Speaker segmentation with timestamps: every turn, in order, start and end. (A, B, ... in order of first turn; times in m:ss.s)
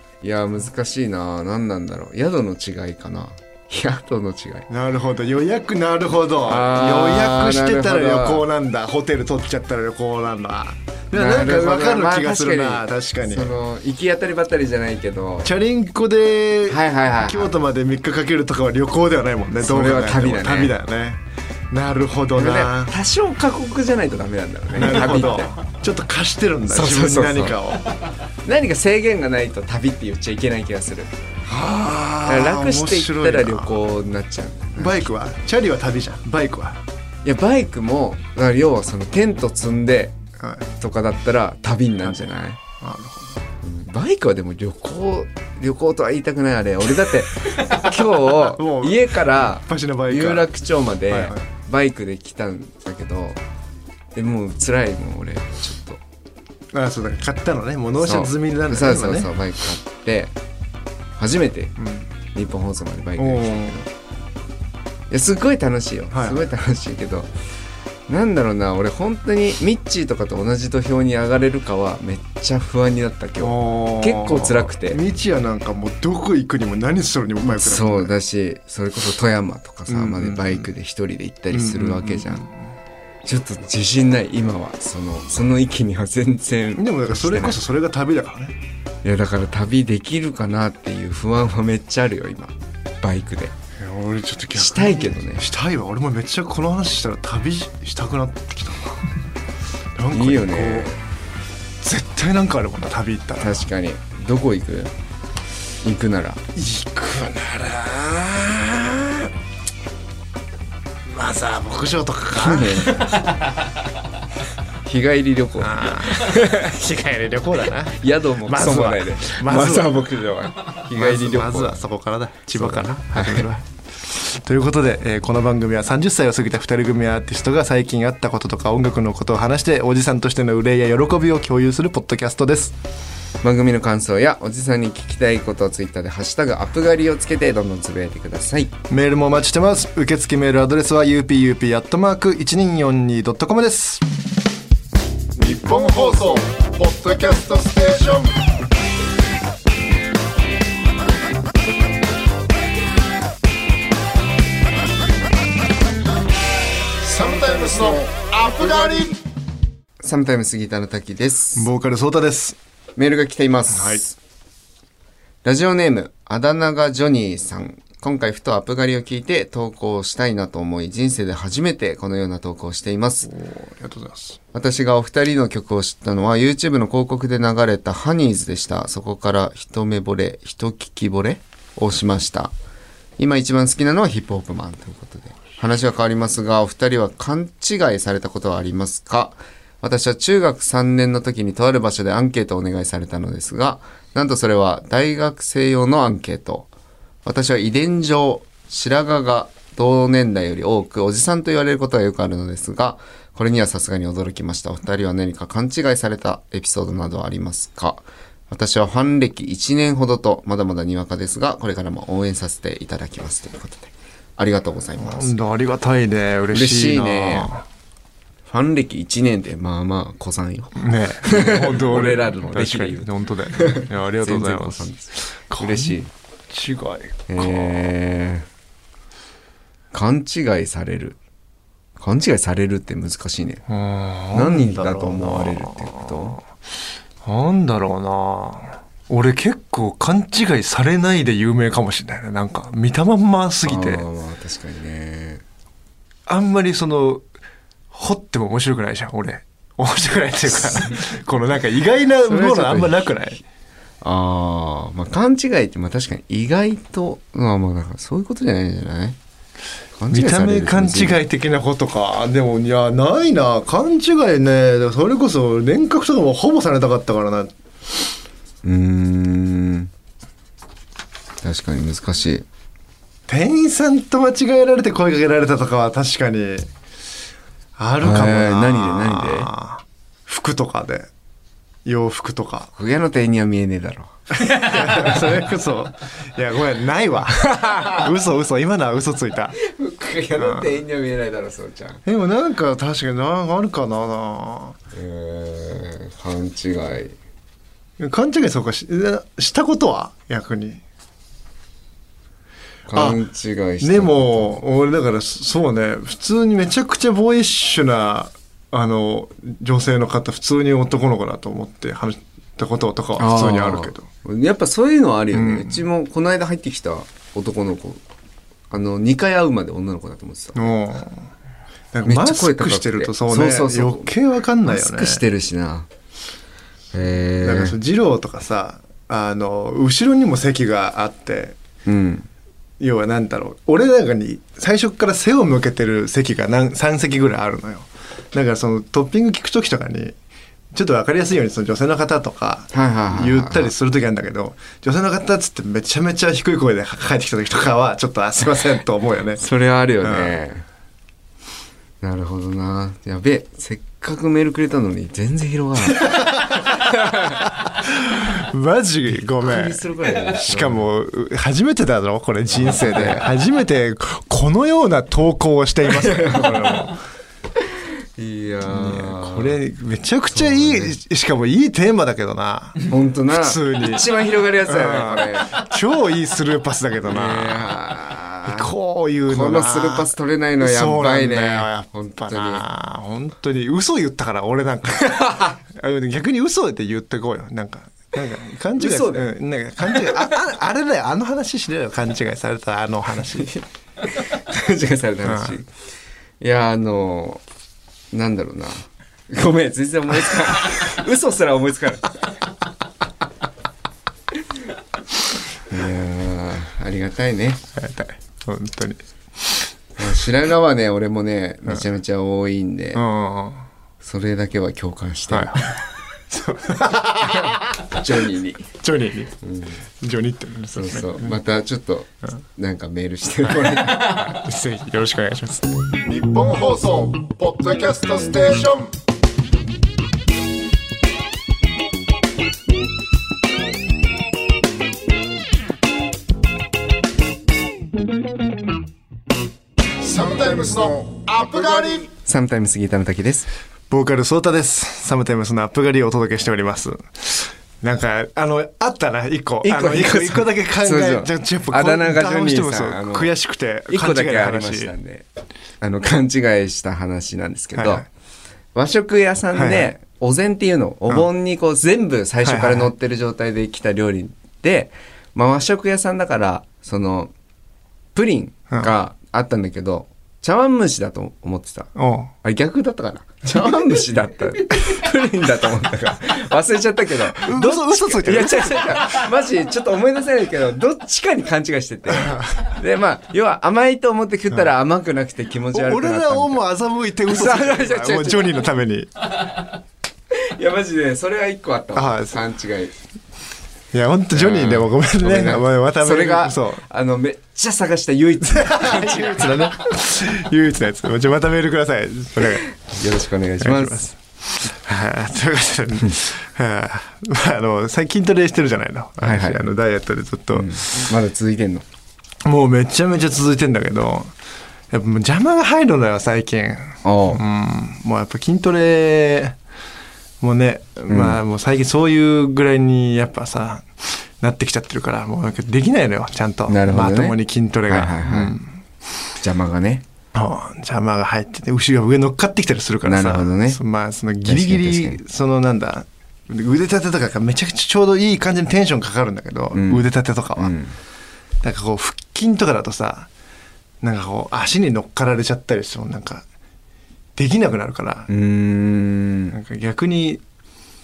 0:00.2-0:04.7 A
0:04.7-0:13.6 B
0:06.5-0:08.4 A
0:11.1-0:15.5 A
0:15.4-0:22.9 B
0:16.7-0:17.5 A
0:19.6-0:20.8 A
0:22.4-0:25.6 A
0:24.7-0:28.0 B
0:26.7-0:27.6 A
0:28.4-0:31.1 A
0:31.5-0:33.8 B
0:32.2-0:35.1 A
0:34.8-0:36.8 B
0:37.2-0:40.2 A
0:40.4-0:40.6 B
0:40.8-0:42.6 A
0:42.0-0:43.4 B
0:43.6-0:53.4 A
0:48.4-0:50.5 B
0:51.1-0:51.4 B
0:54.2-0:56.0 A
0:56.7-0:59.3 B
0:58.0-1:00.3 A
1:01.2-1:01.8 A
1:01.8-1:02.1 B
1:02.3-1:03.9 A
1:03.2-1:03.8 B
1:05.1-1:07.3 A
1:06.1-1:06.5 B
1:08.1-1:15.0 A
1:13.4-1:18.1 B
1:17.4-1:22.4 A
1:19.9-1:20.7 B
1:21.5-1:22.6 B
1:23.2-1:27.6 A
1:26.8-1:28.6 B
1:29.0-1:33.6 A
1:33.8-1:39.0 B
1:34.6-1:35.4 A
1:40.0-1:40.9 B
1:40.1-1:41.0 A
1:41.8-1:43.7 B
1:43.4-1:44.9 A
1:45.8-1:46.4 A
1:46.6-1:49.3 B
1:51.1-1:53.2 B
1:52.4-1:53.2 A
1:54.8-1:56.8 A
1:55.6-2:00.1 B
1:57.9-2:01.9 A
2:00.9-2:12.8 B
2:02.5-2:03.5 A
2:13.4-2:18.7 A
2:18.9-2:24.0 B
2:25.4-2:28.4 C
2:37.0-2:39.2 C
2:40.0-2:41.7 A
2:41.6-2:42.6 B
2:43.0-2:44.2 A
2:43.7-2:44.0 B
2:45.4-2:53.3 A
2:53.2-2:54.4 B
2:54.5-3:02.5 A
3:03.2-3:16.7 A
3:17.2-3:35.4 A
3:35.0-3:37.6 B
3:36.5-3:37.5 A
3:38.5-3:46.1 A
3:40.8-3:46.0 B
3:46.5-3:47.9 B
3:47.3-3:48.5 A
3:49.9-3:51.2 A
3:52.0-3:53.6 A
3:53.7-3:56.4 B
3:54.3-3:56.4 A
3:57.2-4:04.0 B
4:03.6-4:05.4 A
4:06.3-4:07.3 B
4:07.9-4:13.4 B
4:12.2-4:13.1 A
4:14.0-4:19.2 A
4:20.0-4:21.2 A
4:20.1-4:27.5 B
4:28.6-4:29.9 A
4:31.4-4:32.4 A
4:33.3-4:36.7 B
4:37.8-4:41.1 B
4:38.0-4:39.5 A
4:41.8-4:42.7 B
4:42.8-4:44.2 A
4:44.4-4:49.6 B
4:44.7-4:45.2 A
4:47.6-4:48.0 A
4:49.6-4:52.0 A
4:50.4-4:50.8 B
4:52.0-4:54.8 B
4:54.9-4:57.2 A
4:58.0-5:00.8 B
5:02.9-5:04.6 A
5:02.9-5:03.2 B
5:03.8-5:14.1 B
5:13.2-5:18.0 A
5:15.3-5:15.9 B
5:18.7-5:20.8 A
5:20.6-5:21.2 B
5:21.9-5:25.2 B
5:22.0-5:25.9 A
5:26.9-5:27.8 A
5:27.4-5:31.6 B
5:31.9-5:32.3 A
5:32.8-5:40.2 B
5:40.7-5:49.4 B
5:42.7-5:43.7 A
5:49.4-5:50.6 A
5:50.0-5:50.4 B
5:52.0-5:57.5 A
5:55.8-6:07.0 B
5:59.4-6:00.9 A
6:02.5-6:03.3 A
6:05.9-6:06.9 A
6:07.6-6:09.6 A
6:08.6-6:14.1 B
6:10.3-6:10.9 A
6:12.8-6:15.6 A
6:14.6-6:17.8 B
6:17.0-6:18.7 A
6:18.4-6:33.5 B
6:19.3-6:22.6 A
6:25.0-6:25.6 A
6:28.8-6:29.3 A
6:29.9-6:30.3 A
6:33.4-6:35.7 A
6:35.3-6:35.6 B
6:36.4-6:37.4 A
6:38.1-6:42.3 A
6:45.7-6:47.6 A
6:47.8-6:49.7 B
6:50.0-6:53.0 A
6:53.0-6:53.7 B
6:54.0-6:55.7 A
6:55.3-6:58.0 B
6:57.3-6:58.7 A
6:58.8-6:59.3 B
6:59.4-6:59.8 A
7:00.0-7:01.4 B
7:00.7-7:04.4 A
7:04.2-7:05.7 B
7:06.0-7:08.9 C
7:20.0-7:22.1 C
7:22.2-7:23.5 A
7:23.9-7:34.9 B
7:29.6-7:33.3 A
7:33.9-7:35.3 A
7:35.8-7:38.1 A
7:37.8-7:38.1 B
7:38.8-7:47.3 A
7:39.5-7:39.9 B
7:42.4-7:42.9 B
7:48.2-8:06.6 A
7:52.0-7:52.3 B
7:57.3-7:59.2 B
8:02.2-8:02.5 B
8:05.7-8:09.1 B
8:07.3-8:08.6 A
8:10.3-8:12.9 A
8:11.9-8:12.4 B
8:13.9-8:16.8 B
8:14.3-8:19.8 A
8:18.5-8:22.6 B
8:22.4-8:24.1 A
8:23.6-8:31.1 B
8:29.2-8:29.6 A
8:30.5-8:31.8 A
8:32.4-8:34.3 B
8:34.9-8:39.6 B
8:37.0-8:37.4 A
8:40.4-8:48.8 B
8:41.1-8:41.4 A
8:46.7-8:48.6 A
8:49.4-8:50.0 A
8:50.3-9:00.7 B
8:53.0-8:53.8 A
8:54.4-8:55.2 A
8:59.7-9:01.0 A
9:01.6-9:03.3 B
9:04.0-9:06.4 B
9:07.4-9:08.3 B
9:08.3-9:09.6 A
9:09.5-9:10.4 B